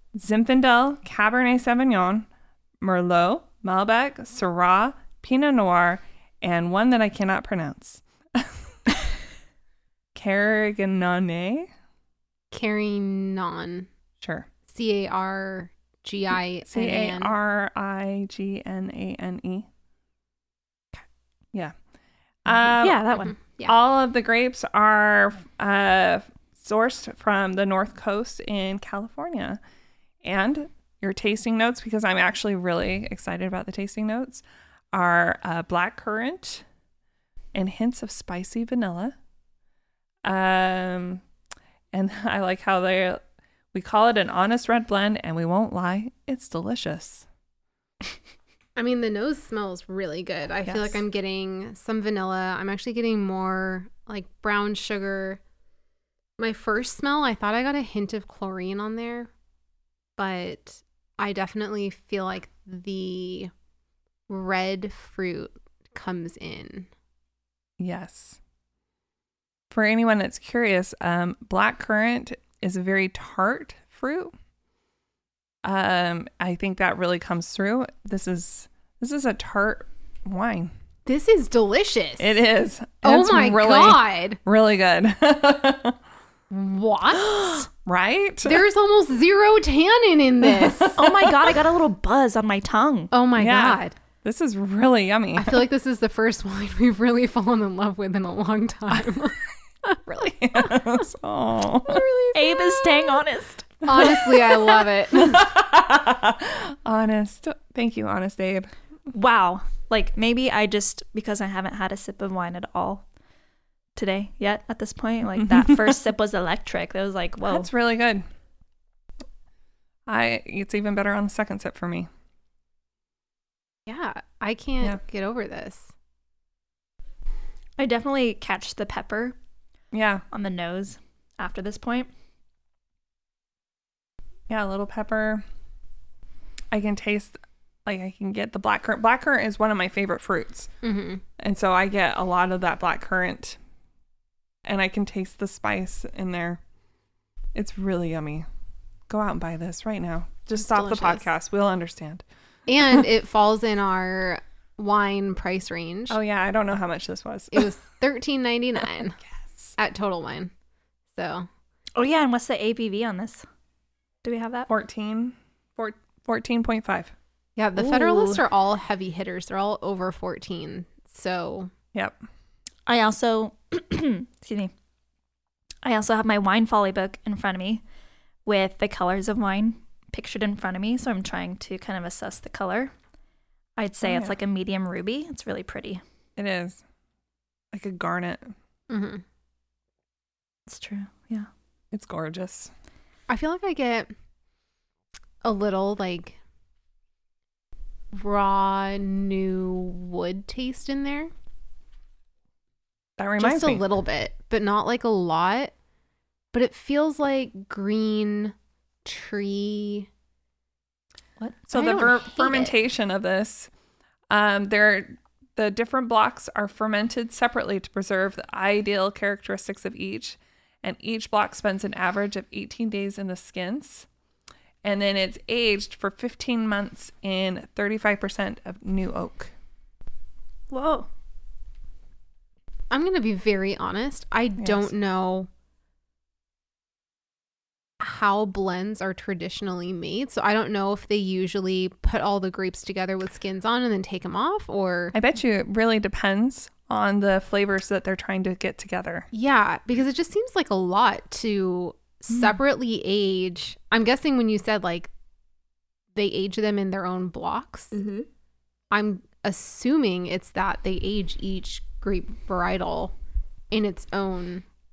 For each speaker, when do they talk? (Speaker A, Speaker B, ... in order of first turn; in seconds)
Speaker A: 0.1-2.3, 2.8-8.6, 10.1-11.7, 14.2-14.5, 16.7-19.7, 22.4-23.0, 23.6-29.6, 30.2-36.6, 37.5-39.1, 40.2-41.2, 41.9-43.2, 43.7-47.3, 67.8-68.4, 69.7-74.3, 75.6-80.7, 82.2-86.0, 87.8-88.6, 90.4-91.5, 93.3-95.7, 100.0-102.0, 104.0-108.7, 115.4-115.9, 117.5-118.2, 120.1-122.1, 129.9-130.2, 134.5-135.4, 136.7-140.7, 141.4-143.6, 144.6-146.6, 147.5-148.4, 149.1-152.2, 156.1-157.7, 164.7-167.1, 184.0-184.3, 186.3-186.8, 187.7-188.5, 191.9-192.7, 203.2-203.8, 211.7-213.7, 214.3-224.1, 224.8-229.5, 234.6-234.9, 245.1-249.3
Speaker B: 12.5-13.9, 14.7-17.3, 23.1-23.8, 48.8-55.4, 56.4-59.3, 60.2-63.5, 64.3-66.9, 81.0-82.3, 83.0-84.4, 86.5-87.6, 88.4-91.0, 93.1-93.9, 95.3-99.4, 101.8-103.2, 103.8-105.5, 123.9-125.9, 140.8-141.2, 150.6-151.3, 152.7-156.2, 157.5-159.2, 159.8-160.5, 161.1-161.5, 167.6-171.7, 188.9-189.2, 193.3-194.1, 195.4-196.4, 198.1-201.3, 203.4-205.7, 206.5-208.5, 209.0-210.1, 211.7-212.7, 232.9-235.5, 238.0-245.1, 249.3-255.1, 256.1-258.0, 258.9-263.1, 263.7-264.6
Speaker C: 22.8-23.3, 87.2-87.6, 91.0-93.1, 102.3-103.8, 109.1-113.0, 114.0-117.7, 127.8-129.3, 130.3-132.1, 161.9-163.4, 164.2-164.7, 167.8-168.4, 172.9-174.7, 175.8-177.8, 178.4-182.9, 183.8-186.0, 190.7-191.5, 230.7-231.1